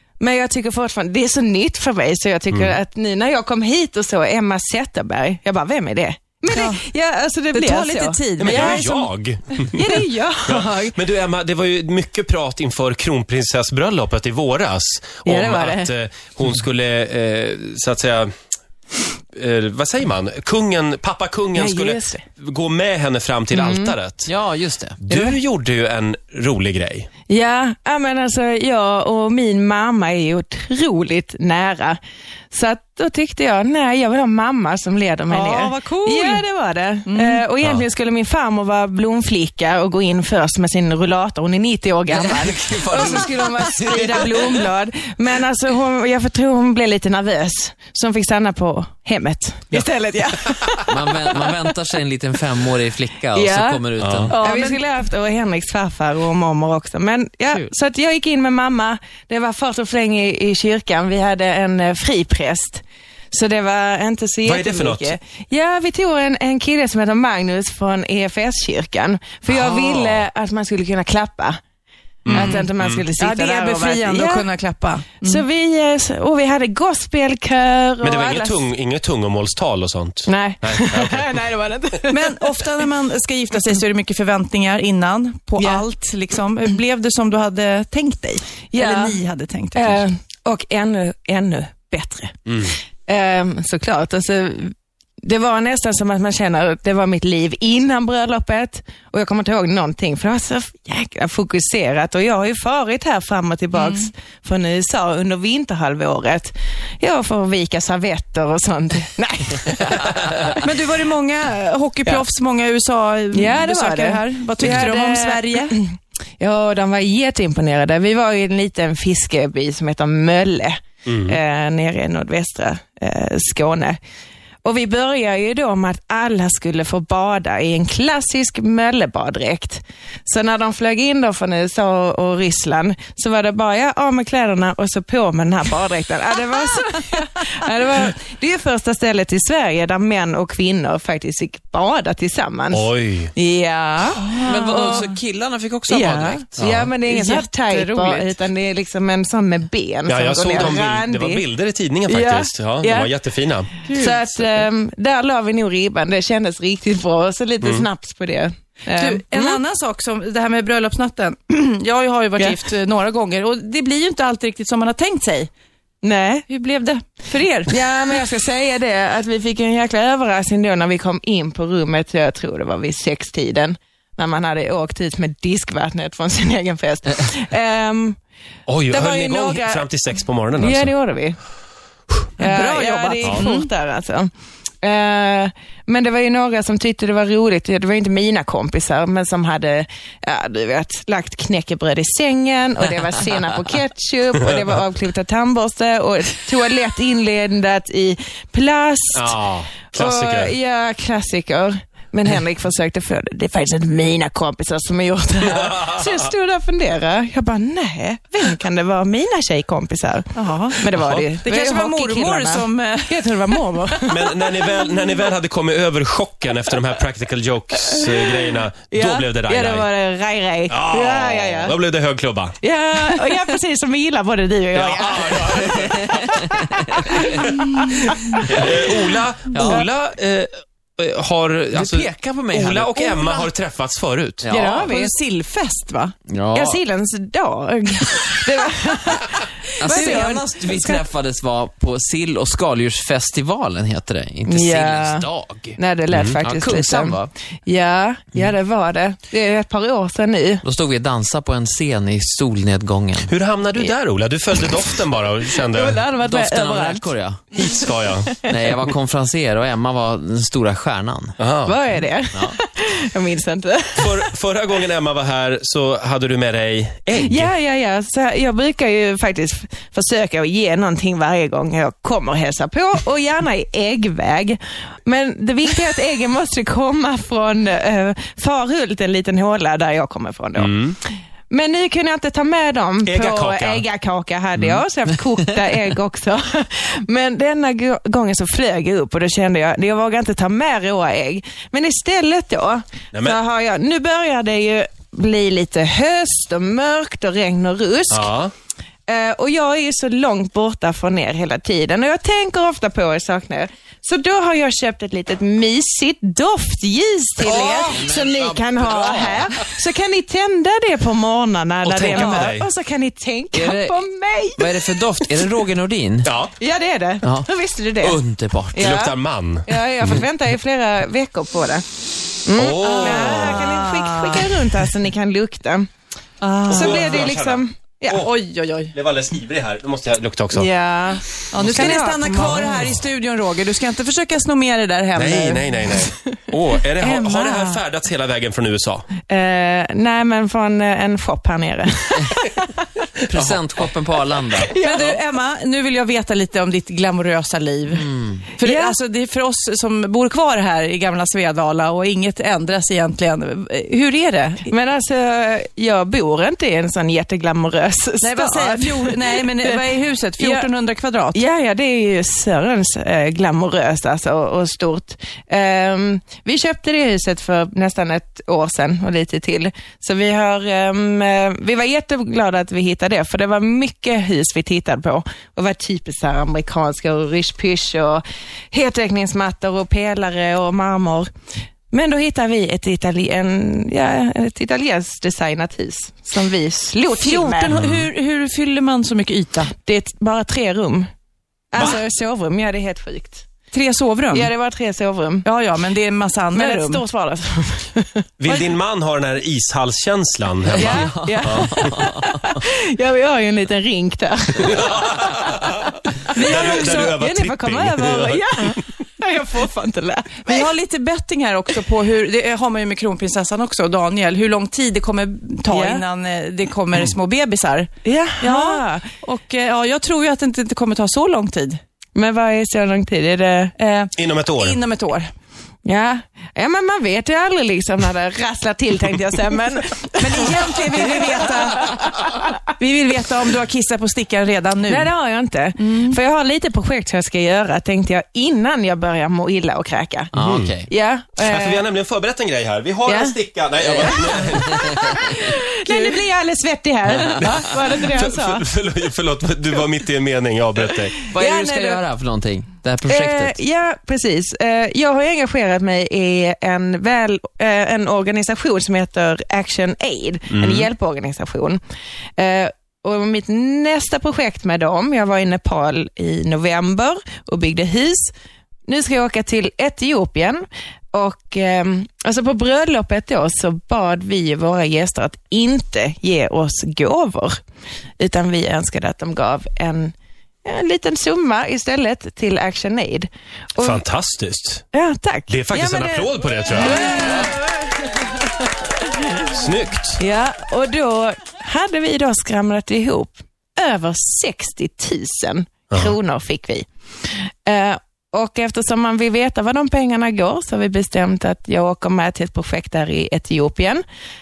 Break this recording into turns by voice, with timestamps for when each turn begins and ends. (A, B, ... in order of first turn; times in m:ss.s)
0:00.2-0:09.0 A
0:02.5-0:02.8 B
0:06.5-0:06.8 C
0:07.5-0:09.0 C
0:08.4-0:18.3 B
0:09.7-0:10.9 A
0:15.2-0:15.9 A
0:19.3-0:24.3 B
0:21.5-0:22.2 A
0:23.5-0:23.9 A
0:24.3-0:25.0 D
0:25.0-0:27.1 B
0:27.3-0:32.0 A
0:32.5-0:51.5 A
0:35.3-0:36.4 C
0:37.1-0:37.4 C
0:42.1-0:44.6 D
0:50.9-0:54.3 D
0:53.3-1:11.6 A
0:54.0-0:54.4 B
0:54.3-0:54.8 C
1:04.4-1:05.2 B
1:09.5-1:10.2 B
1:12.2-1:13.0 B
1:12.3-1:14.4 A
1:12.3-1:15.4 C
1:15.2-1:18.6 A
1:18.0-1:21.3 B
1:20.2-1:22.5 A
1:22.1-1:30.0 C
1:25.6-1:25.8 A
1:28.7-1:29.2 A
1:29.7-1:50.6 A
1:43.7-1:44.1 C
1:50.6-1:55.8 C
1:53.3-2:04.0 A
2:01.0-2:01.4 B
2:04.6-2:25.0 A
2:22.7-2:23.3 B
2:24.2-2:26.7 D
2:24.2-2:25.1 C
2:25.9-2:31.4 A
2:26.6-2:26.9 B
2:27.0-2:28.4 C
2:30.1-2:33.7 B
2:32.1-2:33.1 A
2:33.8-2:34.6 C
2:33.9-2:39.6 A
2:38.9-2:45.5 C
2:46.0-2:46.4 A
2:46.5-2:47.8 C
2:47.7-2:58.2 A
2:58.7-3:00.9 B
2:58.9-2:59.9 A
3:00.6-3:01.4 A
3:02.4-3:03.7 C
3:02.4-3:04.3 A
3:04.8-3:19.3 A
3:19.1-3:20.5 B
3:19.9-3:34.6 A
3:30.3-3:30.8 C
3:30.9-3:31.3 B
3:31.4-3:33.6 C
3:34.1-3:39.9 B
3:38.9-3:41.8 A
3:40.7-3:42.6 B
3:42.6-3:48.6 A
3:44.7-3:46.5 B
3:47.1-3:47.7 B
3:48.4-3:54.5 B
3:49.5-3:49.8 D
3:49.6-3:49.8 A
3:51.7-3:53.2 D
3:54.4-3:54.9 D
3:54.5-3:56.1 C
3:54.6-3:55.1 A
3:56.3-3:56.8 D
3:56.5-4:01.0 A
3:59.8-4:05.8 D
3:59.8-4:00.4 C
4:04.5-4:10.6 A
4:06.1-4:06.4 B
4:06.4-4:07.3 D
4:10.6-4:13.3 D
4:13.3-4:16.0 B
4:15.7-4:17.1 A
4:16.2-4:17.6 D
4:17.5-4:18.4 B
4:17.6-4:18.6 A
4:18.4-4:21.4 D
4:21.4-4:21.8 B
4:21.6-4:24.3 A
4:24.0-4:27.5 B
4:27.2-4:58.3 A
4:40.6-4:41.0 B
4:43.0-4:43.8 B
4:53.1-4:53.4 B
4:58.1-4:58.5 B
4:59.1-5:15.5 A
5:07.4-5:08.0 B
5:07.5-5:09.5 D
5:11.8-5:12.7 B
5:12.1-5:12.5 D
5:13.5-5:14.0 D
5:14.6-5:16.3 D
5:16.2-5:16.5 B
5:16.6-5:18.2 A
5:18.0-5:19.0 D
5:18.7-5:19.1 A
5:18.8-5:20.2 B
5:19.6-5:21.8 A
5:22.4-5:25.9 A
5:22.5-5:23.7 B
5:22.8-5:24.7 C
5:26.4-5:27.3 C
5:26.7-5:28.3 B
5:26.8-5:28.3 A
5:28.1-5:28.9 C
5:28.9-5:30.7 B
5:30.5-5:32.8 A
5:31.5-5:35.8 C
5:31.6-5:31.9 B
5:35.1-5:39.1 B
5:37.0-5:37.7 C
5:39.3-5:42.8 A
5:43.3-5:44.8 D
5:44.5-5:45.2 A
5:44.8-5:54.7 C
5:48.0-5:48.4 D
5:48.6-5:48.9 A
5:54.7-5:59.8 A
5:58.2-6:01.4 C
6:00.4-6:00.7 A
6:01.3-6:21.3 A
6:21.9-6:27.8 A
6:27.1-6:29.7 C
6:29.8-6:31.1 A
6:31.7-6:33.5 A
6:33.7-6:34.5 C
6:34.3-6:35.5 A
6:35.4-6:37.0 C
6:36.5-6:38.2 A
6:38.4-6:41.9 B
6:40.7-6:42.2 D
6:40.8-6:50.7 A
6:44.6-6:45.8 B
6:46.3-6:47.1 C
6:46.4-6:48.7 B
6:50.4-7:01.8 C
6:55.7-6:56.0 A
6:58.0-6:59.0 A
7:02.1-7:03.7 A
7:03.8-7:05.3 C
7:04.2-7:04.8 B
7:05.8-7:12.5 A
7:10.2-7:15.1 C
7:14.9-7:20.3 A
7:15.8-7:16.2 C
7:20.3-7:20.9 D
7:20.4-7:20.7 B
7:20.9-7:21.8 A
7:21.4-7:25.1 B
7:23.0-7:23.4 A
7:23.9-7:28.7 A
7:24.5-7:24.8 D
7:25.9-7:26.2 C
7:27.3-7:31.2 B
7:31.3-7:33.6 D
7:31.3-7:32.0 A
7:33.0-7:41.8 A
7:40.5-7:40.9 B
7:42.4-7:48.3 A
7:48.8-7:57.6 A
7:58.2-8:04.0 A
8:03.8-8:04.8 B
8:04.9-8:08.5 A
8:05.5-8:07.5 B
8:09.4-8:10.2 B
8:10.2-8:16.9 A
8:17.6-8:24.0 A